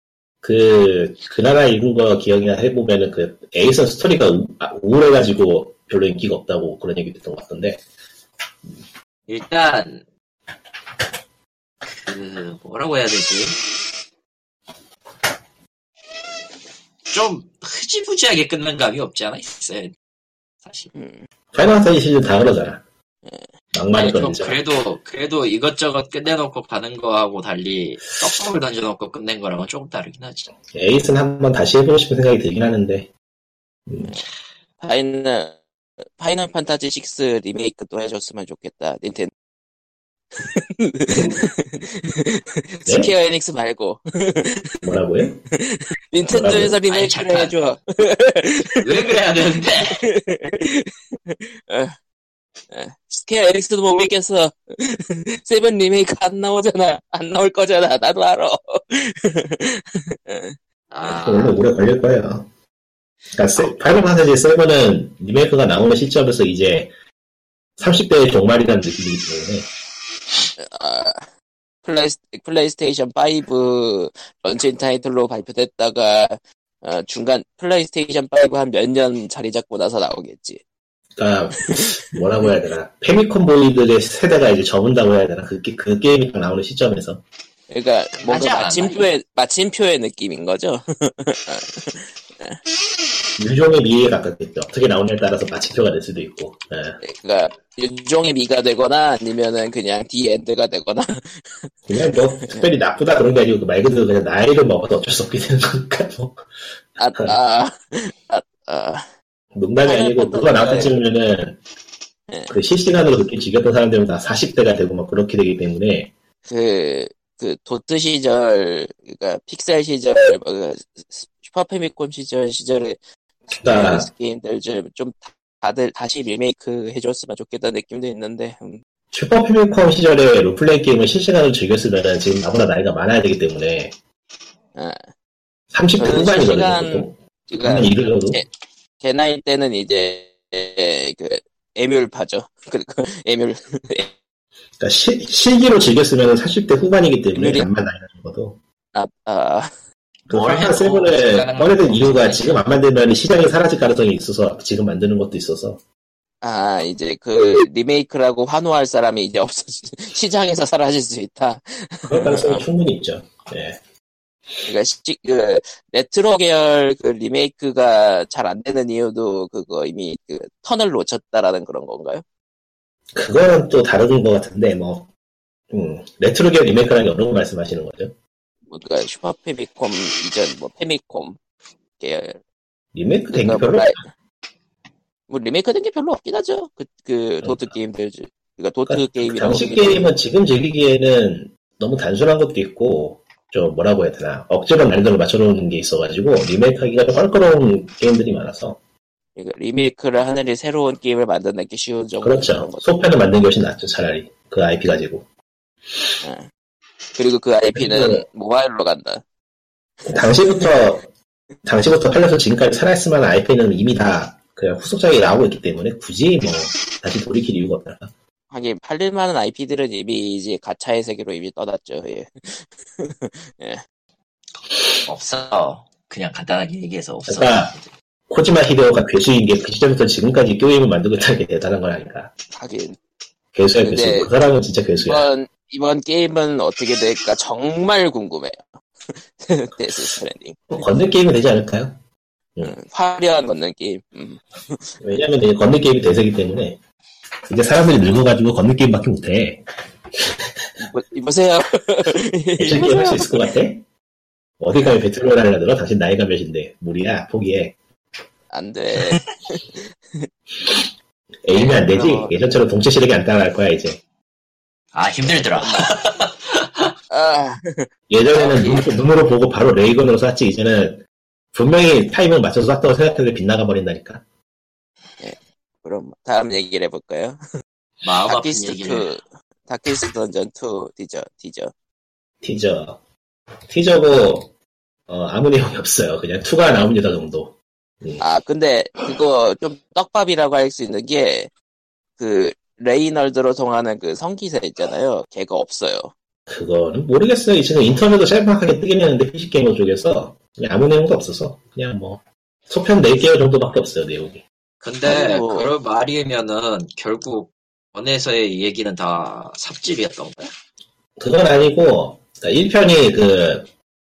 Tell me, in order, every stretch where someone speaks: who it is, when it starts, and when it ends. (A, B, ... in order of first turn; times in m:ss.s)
0:00.4-0:07.8 A
0:09.3-0:10.0 B
0:12.0-0:13.6 B
0:17.1-0:19.9 B
0:20.6-0:20.9 B
0:20.9-0:21.2 C
0:21.5-0:22.8 A
0:23.7-0:24.6 A
0:23.9-0:30.5 B
0:30.7-0:33.1 A
0:33.9-0:34.2 A
0:34.8-0:35.6 C
0:36.2-0:39.3 C
0:40.4-0:44.9 C
0:41.1-0:41.4 A
0:42.9-0:43.1 A
0:44.8-0:45.4 A
0:45.5-0:49.2 C
0:46.3-0:46.8 A
0:46.9-0:47.8 B
0:48.8-0:50.0 B
0:49.8-0:52.0 C
0:52.7-1:00.6 C
1:00.9-1:01.6 B
1:01.0-1:02.5 A
1:03.3-1:06.9 A
1:07.8-1:09.7 A
1:10.6-1:11.3 C
1:11.8-1:20.6 C
1:21.2-1:27.2 A
1:21.7-1:22.0 C
1:27.7-1:32.6 C
1:28.2-1:29.1 B
1:33.4-1:37.0 A
1:37.0-1:41.7 C
1:41.9-1:46.4 A
1:42.4-1:42.7 C
1:47.0-1:49.1 C
1:49.5-1:51.6 A
1:49.8-1:50.9 C
1:52.3-1:52.6 C
1:52.5-1:56.1 A
1:56.5-2:03.0 C
2:03.5-2:08.8 C
2:03.6-2:04.1 A
2:09.1-2:13.9 A
2:14.8-2:15.1 C
2:15.7-2:18.4 A
2:16.0-2:18.5 C
2:19.0-2:24.1 C
2:24.8-2:28.6 A
2:27.3-2:27.7 C
2:28.9-2:29.7 C
2:30.3-2:32.6 B
2:30.3-2:35.8 A
2:36.4-2:42.6 C
2:42.1-2:43.8 A
2:44.7-2:52.2 C
2:53.2-2:55.1 A
2:55.7-2:58.1 A
2:58.7-3:01.4 C
3:02.0-3:02.4 C
3:02.9-3:04.0 A
3:03.3-3:04.0 C
3:05.3-3:10.1 C
3:07.4-3:07.7 A
3:08.9-3:18.8 A
3:19.4-3:22.9 C
3:22.2-3:25.3 A
3:26.2-3:26.5 C
3:27.2-3:29.2 C
3:27.7-3:28.3 A
3:30.1-3:30.7 C
3:30.1-3:31.0 A
3:31.6-3:38.1 A
3:38.5-3:43.8 C
3:45.1-3:47.8 B
3:47.3-3:47.7 A
3:48.3-3:52.3 A
3:52.5-3:53.0 C
3:53.5-3:55.3 A
3:53.8-3:54.3 C
3:55.1-4:00.7 C
4:00.7-4:02.0 A
4:02.6-4:05.0 C
4:05.0-4:06.8 A
4:07.5-4:09.6 A
4:10.2-4:10.6 A
4:10.8-4:13.4 C
4:12.6-4:13.9 A
4:14.6-4:17.8 A
4:18.5-4:20.3 C
4:21.4-4:24.0 A
4:21.5-4:21.8 B
4:21.9-4:22.3 C
4:24.9-4:26.9 B
4:25.6-4:25.9 C
4:27.1-4:28.8 C
4:28.1-4:34.2 A
4:28.4-4:28.8 B
4:35.2-4:37.4 C
4:38.0-4:39.1 B
4:38.2-4:41.7 C
4:42.4-4:43.0 A
4:43.7-4:44.5 A
4:45.1-4:48.2 A
4:48.2-4:51.5 C
4:52.2-4:56.1 C
4:56.5-5:04.4 A
5:04.8-5:10.5 B
5:05.0-5:05.7 C
5:11.2-5:13.7 A